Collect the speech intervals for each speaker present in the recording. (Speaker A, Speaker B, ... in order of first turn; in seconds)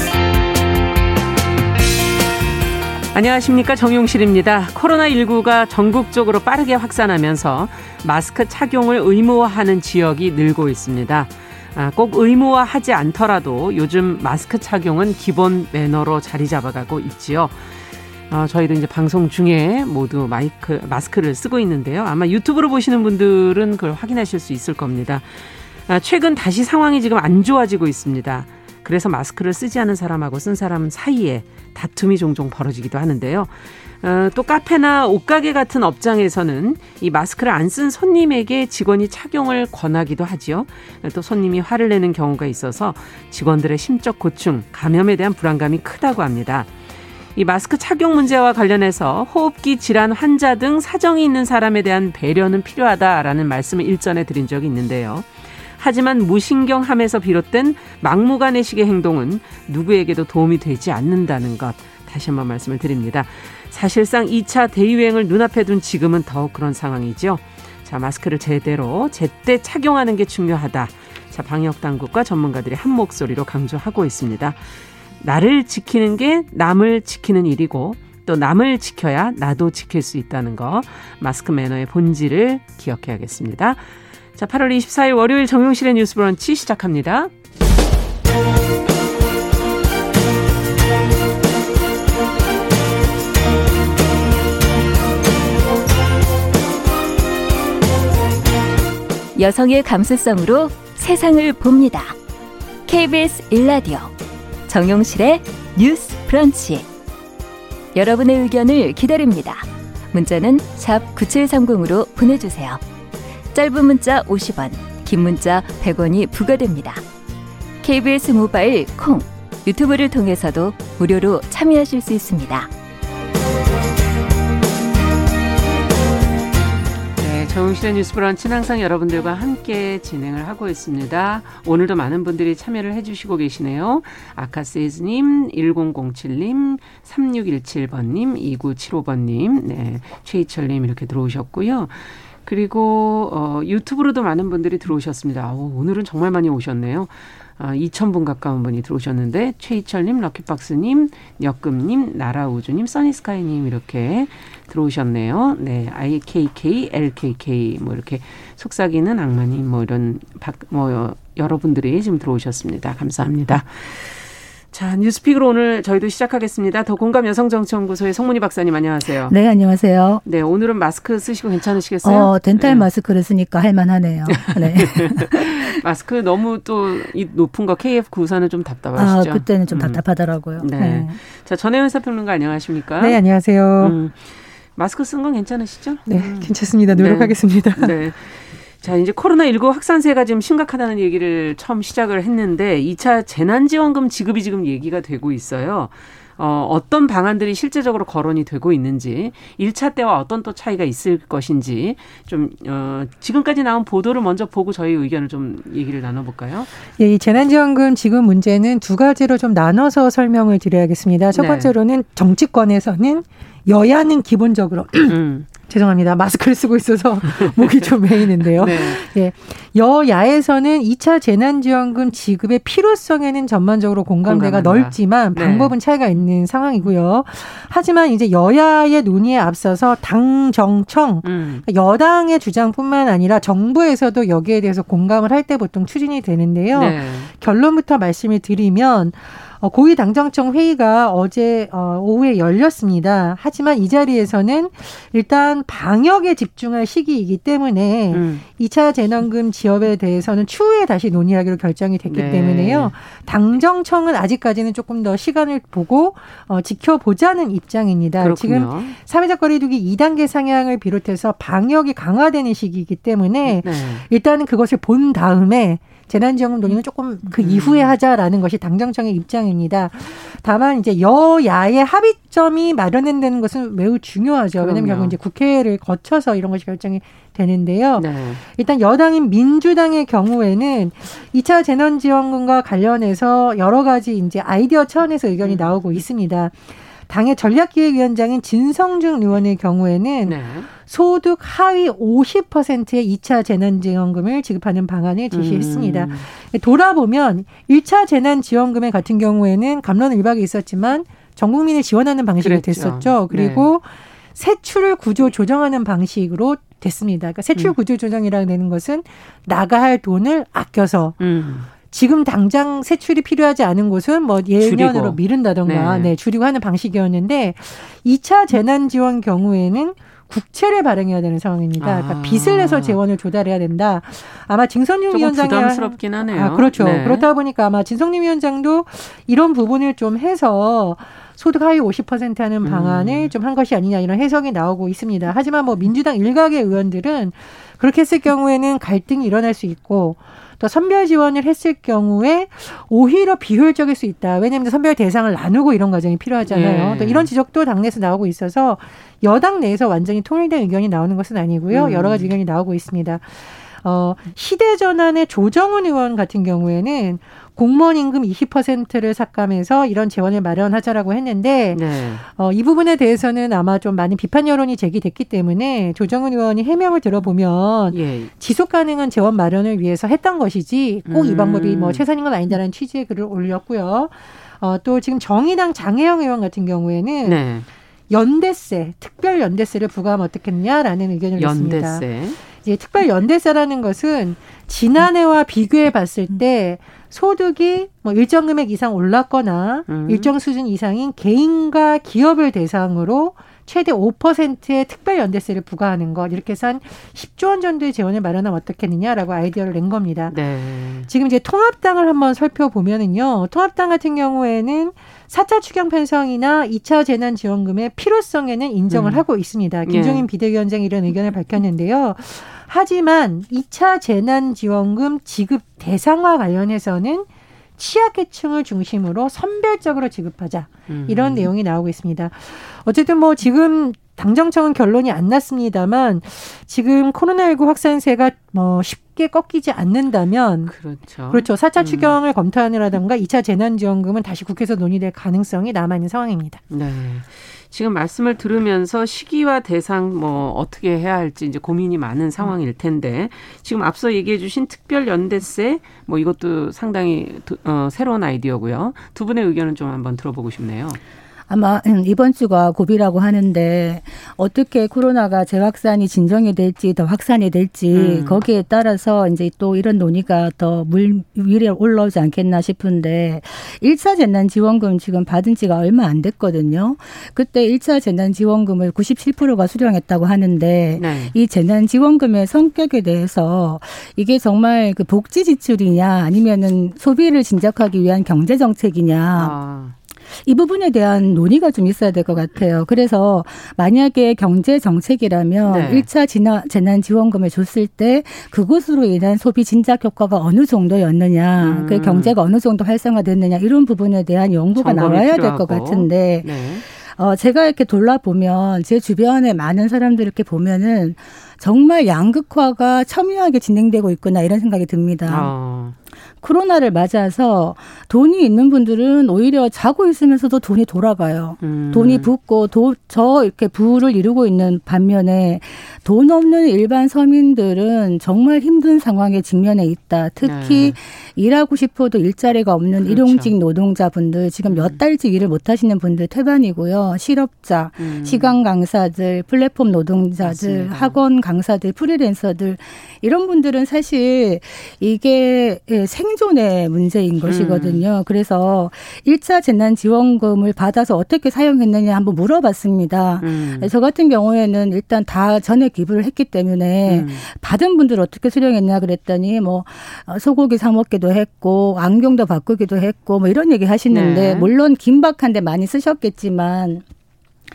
Speaker A: 3.1-46.7, 47.4-74.6, 75.2-83.8, 84.3-87.3, 127.2-169.3, 170.2-172.9, 174.3-180.0, 180.6-183.2, 183.8-206.7, 211.3-211.7, 215.1-215.5, 217.4-219.1, 224.3-225.7, 231.2-231.7, 236.7-237.3, 248.1-248.4, 252.1-252.9, 258.2-259.0, 263.4-264.1, 266.7-267.9, 274.6-275.1, 278.0-278.4, 285.4-286.0, 290.2-290.7, 295.3-296.3, 302.4-303.7, 311.2-311.7, 314.6-316.1, 321.8-323.0, 325.1-327.3, 332.6-333.3, 346.5-347.3, 351.7-352.3, 361.7-362.2, 367.9-368.3, 371.1-372.0, 377.2-377.7, 381.4-382.4, 389.9-390.3, 400.3-401.1, 408.9-409.2, 409.9-410.3, 420.9-421.5, 430.7-432.2, 436.7-451.0, 457.9-458.4, 470.9-471.4, 479.4-480.0, 485.6-486.1, 491.6-492.3, 494.8-496.9, 505.3-506.0, 511.6-512.3, 520.4-521.0, 523.0-523.5, 524.6-525.0, 528.0-528.6, 530.4-531.2, 537.4-538.0, 543.4-543.9, 547.1-547.4, 554.1-554.7
Speaker B: 99.3-102.2, 102.9-104.1, 104.7-106.9, 107.9-112.8, 113.5-117.0, 117.8-122.7
Speaker C: 169.3-170.2, 172.0-175.7, 179.0-181.2, 451.5-479.6, 480.4-505.5, 506.4-557.0
Speaker D: 183.0-184.0, 186.1-188.0, 207.0-311.2, 311.9-377.4, 378.1-400.4, 401.1-430.8, 431.3-436.6